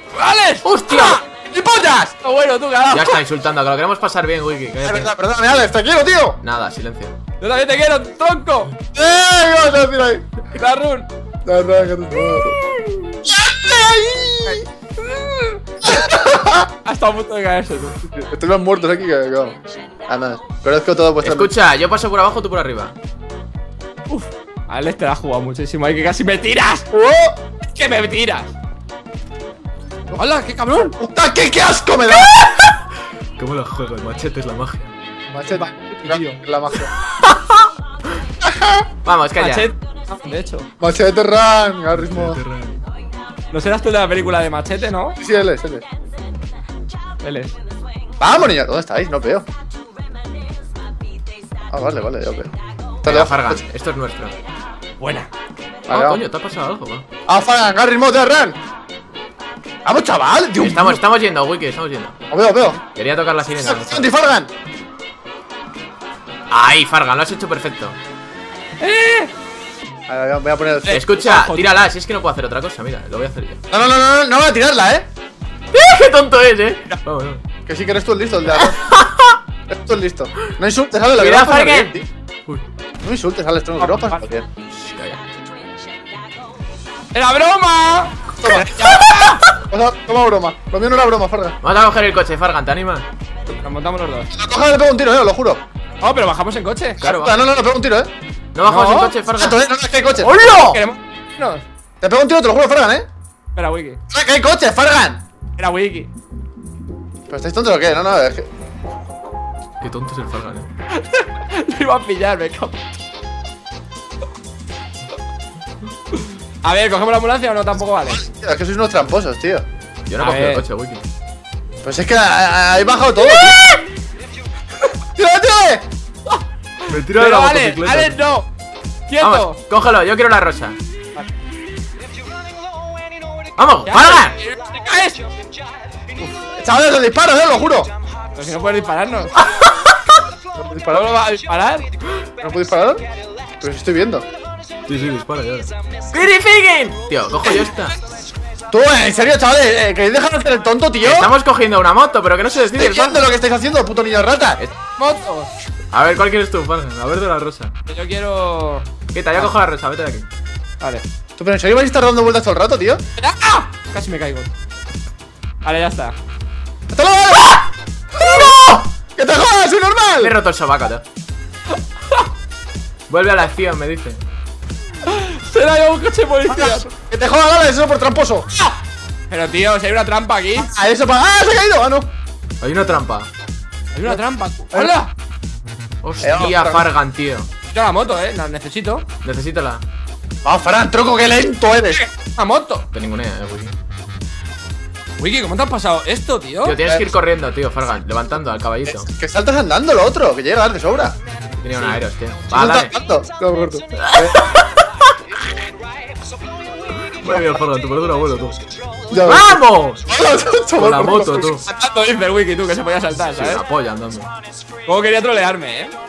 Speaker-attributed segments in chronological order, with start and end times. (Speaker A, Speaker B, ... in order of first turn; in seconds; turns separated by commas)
Speaker A: 0.1-1.2, Speaker B: 0.6-1.2, Speaker C: 1.2-2.1, Speaker A: 2.2-3.2, Speaker B: 2.9-5.1, Speaker C: 4.8-6.4, Speaker B: 6.4-7.1, Speaker A: 7.4-8.7, Speaker C: 8.9-10.2, Speaker A: 10.5-11.1, Speaker C: 11.4-12.6, Speaker B: 12.7-13.2, Speaker C: 13.3-14.7, Speaker A: 14.4-15.6, Speaker C: 15.8-16.7, Speaker A: 16.8-17.9, Speaker C: 18.0-21.5, Speaker B: 21.2-22.9, Speaker A: 24.1-26.9, Speaker C: 26.9-27.4, Speaker A: 27.6-28.5, Speaker A: 30.1-30.9, Speaker C: 31.0-32.4, Speaker B: 32.1-32.7, Speaker B: 33.4-34.9, Speaker C: 35.3-36.9, Speaker A: 35.5-36.4, Speaker B: 37.2-37.6, Speaker C: 38.4-38.8, Speaker B: 39.0-39.7, Speaker A: 39.4-40.7, Speaker C: 40.8-42.4, Speaker B: 41.9-42.8, Speaker A: 43.5-45.2, Speaker C: 45.2-45.8, Speaker A: 47.2-47.5, Speaker C: 48.2-49.4, Speaker C: 51.7-52.5, Speaker C: 53.0-53.6, Speaker B: 53.0-54.3, Speaker A: 55.0-55.3, Speaker C: 55.9-56.2, Speaker B: 55.9-57.0, Speaker C: 57.3-58.5, Speaker C: 59.8-61.0, Speaker B: 60.6-62.1, Speaker C: 62.3-62.8, Speaker B: 62.9-64.1, Speaker C: 63.6-64.5, Speaker B: 66.5-68.0, Speaker A: 68.8-69.3, Speaker C: 70.1-71.0, Speaker A: 70.8-71.7, Speaker B: 70.9-73.6, Speaker C: 73.7-75.0, Speaker B: 75.7-77.4, Speaker C: 77.7-78.8, Speaker B: 78.6-79.4, Speaker C: 79.7-82.0, Speaker B: 81.1-82.6, Speaker C: 83.0-84.5, Speaker A: 83.8-84.2, Speaker B: 84.8-85.2, Speaker A: 87.1-89.4, Speaker C: 88.4-88.9, Speaker C: 89.7-91.6, Speaker B: 91.6-93.0, Speaker A: 93.5-94.3, Speaker C: 94.3-95.6, Speaker A: 96.0-97.0, Speaker B: 97.0-97.3, Speaker C: 97.0-98.1, Speaker B: 98.5-99.6, Speaker A: 98.6-99.1, Speaker C: 99.3-100.3, Speaker B: 100.2-100.8, Speaker A: 100.4-101.6, Speaker C: 102.0-103.1, Speaker A: 103.5-104.0, Speaker C: 104.1-105.2, Speaker A: 105.6-106.1, Speaker C: 107.3-108.5, Speaker B: 109.8-110.7, Speaker A: 111.0-112.8, Speaker A: 116.6-118.2, Speaker C: 118.1-119.6, Speaker B: 120.1-121.1, Speaker A: 120.2-120.6, Speaker C: 121.8-123.6, Speaker B: 123.4-123.8, Speaker C: 125.2-125.8, Speaker A: 126.3-128.5, Speaker B: 126.9-128.2, Speaker A: 129.1-129.6, Speaker B: 129.2-130.8, Speaker B: 133.6-134.3, Speaker A: 133.9-135.2, Speaker C: 136.6-137.9, Speaker A: 138.3-139.3, Speaker C: 140.6-141.1, Speaker A: 140.9-141.8, Speaker C: 142.4-143.0, Speaker C: 143.6-144.2, Speaker B: 144.9-147.9, Speaker C: 148.7-151.3, Speaker B: 151.0-153.2, Speaker C: 152.7-154.6, Speaker A: 155.0-155.5, Speaker B: 155.9-157.7, Speaker A: 157.9-158.8, Speaker B: 159.1-160.3, Speaker C: 161.4-163.0, Speaker A: 163.2-164.5, Speaker A: 165.6-166.2, Speaker C: 166.9-170.3, Speaker B: 168.2-168.5, Speaker B: 170.2-171.0, Speaker B: 173.1-174.2, Speaker A: 175.0-176.9, Speaker C: 176.5-178.5, Speaker A: 179.3-180.7, Speaker C: 180.5-182.1, Speaker B: 182.6-183.3, Speaker A: 183.9-185.1, Speaker B: 186.0-187.5, Speaker C: 186.2-186.8, Speaker A: 187.7-189.1, Speaker B: 189.2-189.8, Speaker C: 190.4-192.0, Speaker A: 191.9-192.8, Speaker B: 192.9-193.7, Speaker A: 195.2-196.8, Speaker B: 196.6-199.1, Speaker C: 198.8-201.2, Speaker B: 201.6-202.9, Speaker C: 202.5-204.4, Speaker B: 204.0-204.9, Speaker B: 207.1-210.0, Speaker C: 209.1-211.5, Speaker B: 210.7-211.6, Speaker A: 211.6-213.6, Speaker B: 213.3-214.3, Speaker A: 214.8-215.9